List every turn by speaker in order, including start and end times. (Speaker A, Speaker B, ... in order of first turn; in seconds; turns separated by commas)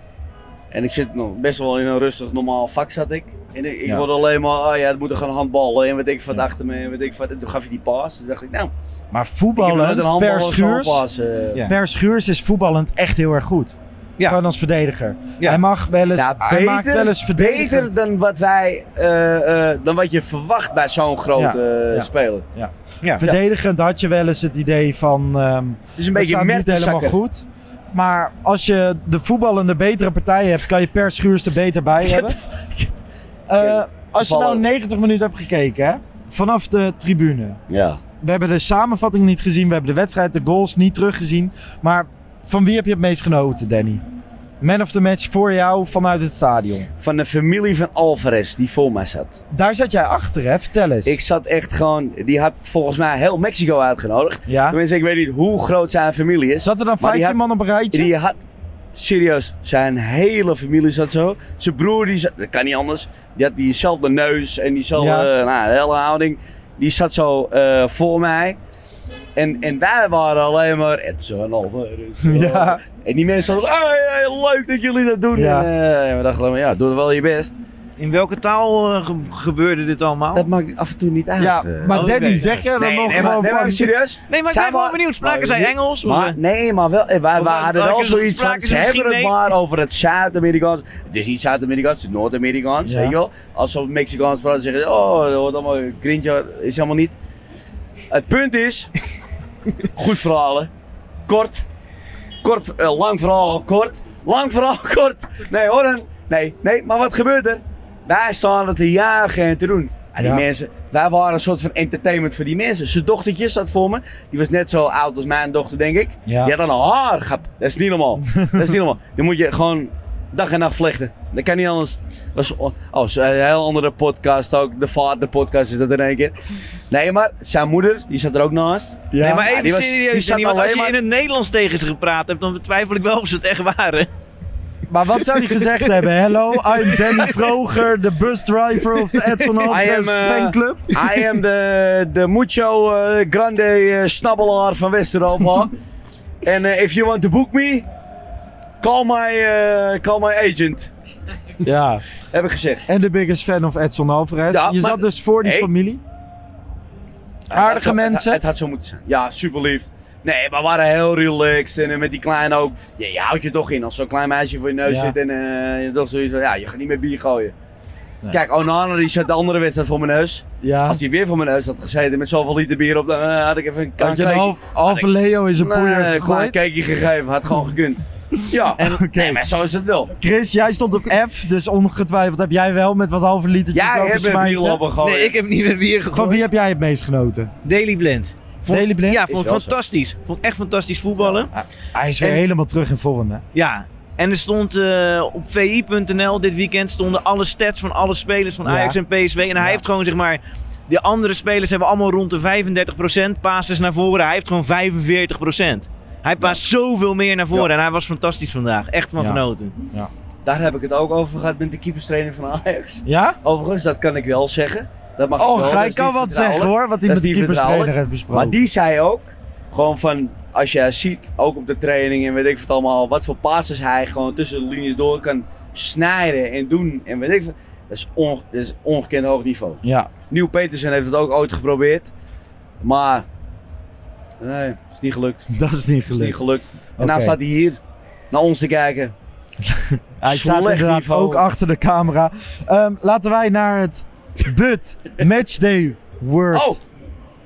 Speaker A: 0.7-8.7, Speaker B: 9.1-11.1, Speaker A: 9.6-11.6, Speaker B: 11.6-17.9, Speaker A: 16.1-22.4, Speaker B: 21.4-32.4, Speaker A: 26.0-27.2, Speaker A: 32.0-33.0, Speaker B: 33.5-37.6, Speaker A: 33.6-34.6, Speaker A: 37.7-38.0, Speaker B: 38.2-44.0, Speaker B: 44.6-46.9, Speaker A: 47.0-49.4, Speaker B: 49.5-51.2, Speaker A: 51.0-57.4, Speaker B: 54.5-54.8, Speaker B: 56.6-58.1, Speaker A: 57.9-58.4, Speaker A: 58.9-68.6, Speaker B: 65.0-65.3, Speaker A: 69.3-77.6, Speaker B: 72.2-72.8, Speaker B: 75.3-75.7, Speaker C: 78.0-80.5, Speaker A: 80.3-97.2, Speaker B: 81.4-83.9, Speaker C: 81.9-82.5, Speaker C: 84.3-86.4, Speaker C: 87.4-89.5, Speaker B: 92.8-93.2, Speaker A: 98.1-98.9, Speaker A: 99.9-100.7, Speaker A: 101.3-101.6, Speaker A: 102.4-126.3, Speaker B: 110.2-110.4, Speaker B: 116.3-116.5, Speaker B: 118.2-118.8, Speaker A: 126.9-131.0, Speaker B: 129.1-129.5, Speaker C: 129.2-134.1, Speaker B: 134.9-141.1, Speaker C: 135.5-135.8, Speaker C: 136.8-137.3, Speaker C: 139.1-139.7, Speaker A: 139.7-145.7, Speaker A: 146.4-147.8, Speaker A: 148.8-150.9, Speaker B: 151.6-152.0, Speaker A: 152.3-152.9, Speaker B: 152.9-156.0, Speaker A: 154.5-155.7, Speaker A: 157.5-167.5, Speaker B: 157.5-158.4, Speaker B: 164.8-165.1, Speaker A: 168.3-180.1, Speaker B: 170.6-171.0, Speaker B: 174.0-176.6, Speaker B: 178.8-179.4, Speaker C: 178.8-179.1, Speaker B: 180.2-184.8, Speaker A: 183.7-185.3, Speaker C: 185.0-186.5, Speaker B: 186.1-187.5, Speaker C: 187.6-191.5, Speaker B: 188.7-189.3, Speaker A: 189.3-189.7, Speaker B: 191.5-193.4, Speaker C: 193.5-209.8, Speaker B: 198.6-199.0, Speaker B: 209.2-210.1, Speaker A: 210.4-232.1, Speaker B: 213.1-213.4, Speaker B: 215.4-218.6, Speaker B: 229.8-230.1, Speaker A: 232.8-233.2, Speaker A: 234.4-235.5, Speaker B: 235.5-236.4, Speaker A: 236.1-237.8, Speaker B: 237.0-237.4, Speaker A: 238.3-239.1, Speaker B: 239.6-246.8, Speaker A: 240.2-241.4, Speaker A: 246.5-246.8